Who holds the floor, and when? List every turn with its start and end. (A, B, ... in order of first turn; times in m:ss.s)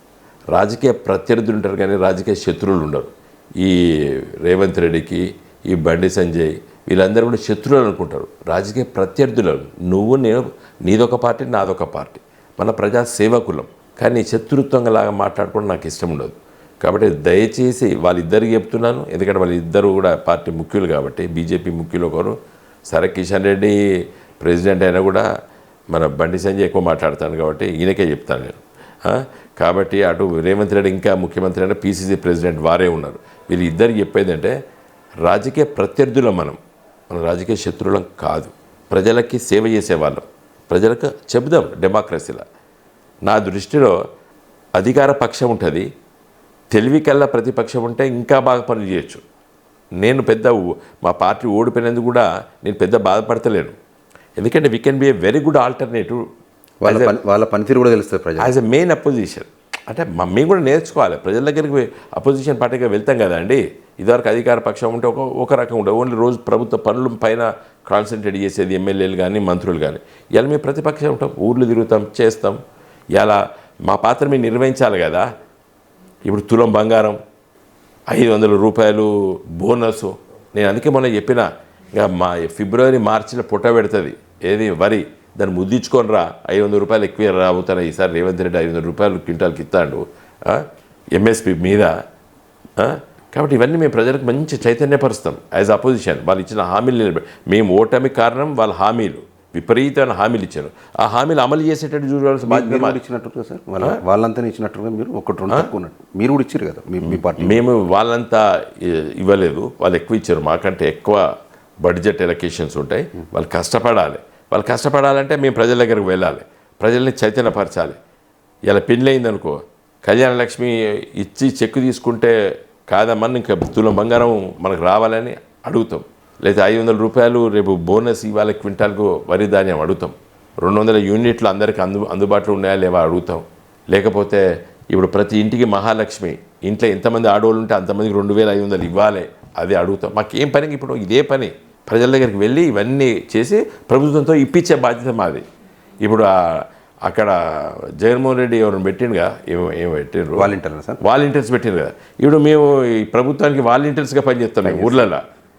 0:00.5-0:22.4 A
0:22.9-0:23.8 A
0:24.4-0:25.3 A
0:25.9-0:34.6 A
0:35.2-0:36.6 A
0:37.1-0:42.4 A
0:43.3-0:44.0 A
0:44.8-0:45.9 A
0:46.7-0:49.2 A
0:50.0-0:53.8 A
0:54.4-0:56.2 A
0:56.8-0:58.5 B
0:56.8-0:57.2 A
0:58.4-1:12.6 A
1:13.1-1:15.3 A
1:16.3-1:17.2 A
1:18.1-1:32.0 A
1:32.8-1:43.0 A
1:42.5-1:47.6 B
1:47.0-1:51.3 A
1:51.8-1:58.0 A
1:58.7-2:25.4 A
2:26.0-2:30.5 A
2:30.4-2:31.0 B
2:31.0-2:35.2 A
2:34.6-2:35.1 B